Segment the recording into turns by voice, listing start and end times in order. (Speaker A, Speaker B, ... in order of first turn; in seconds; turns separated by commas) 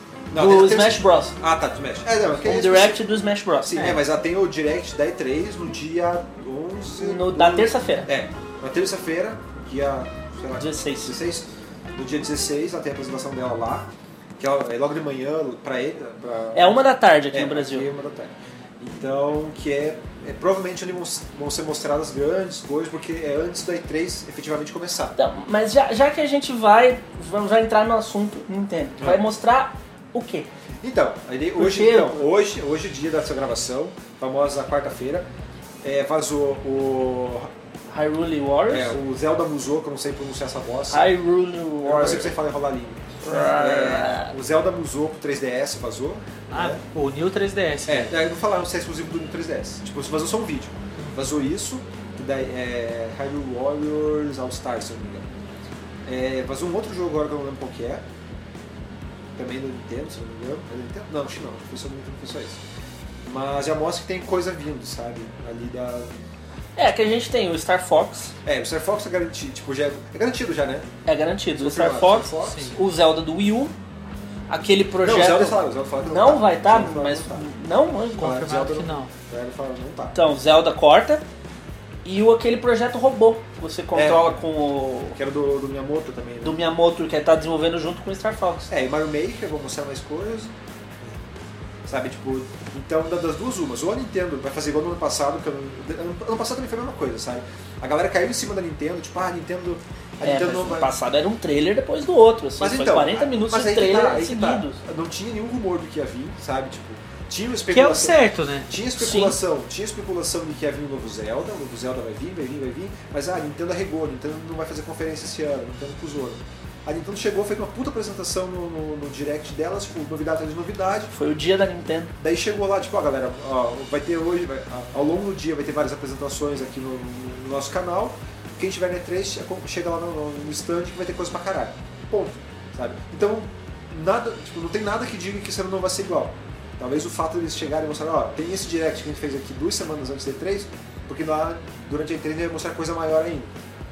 Speaker A: 0.3-3.0, Speaker B: 0.3-1.4, Speaker B: 2.4-4.0, Speaker A: 3.6-16.8, Speaker B: 7.0-8.1, Speaker B: 10.6-11.1, Speaker B: 16.5-17.9, Speaker A: 17.3-25.1, Speaker B: 25.2-30.5, Speaker A: 29.0-29.2, Speaker A: 30.8-35.3, Speaker B: 31.5-32.2, Speaker A: 35.8-37.5, Speaker B: 37.9-39.0, Speaker A: 38.7-41.1, Speaker B: 40.9-42.3, Speaker A: 41.8-46.8, Speaker B: 43.2-44.3, Speaker C: 46.5-48.1, Speaker A: 47.9-55.3, Speaker C: 51.0-51.3, Speaker A: 56.0-58.0, Speaker A: 59.4-62.6, Speaker A: 63.2-66.2, Speaker B: 66.8-68.3, Speaker A: 68.4-70.9, Speaker B: 71.0-73.7, Speaker A: 71.5-72.7, Speaker C: 72.5-72.8, Speaker B: 74.5-78.5, Speaker A: 75.0-77.5, Speaker C: 78.2-79.1, Speaker A: 78.2-80.2, Speaker B: 80.1-81.2, Speaker B: 82.0-85.2, Speaker A: 83.9-84.4, Speaker A: 85.1-86.6, Speaker B: 86.4-88.7, Speaker A: 88.7-90.5, Speaker A: 91.8-100.9, Speaker B: 100.2-104.8, Speaker A: 102.6-121.1, Speaker C: 107.7-108.7, Speaker B: 109.0-109.3, Speaker B: 121.1-122.1, Speaker A: 122.2-143.5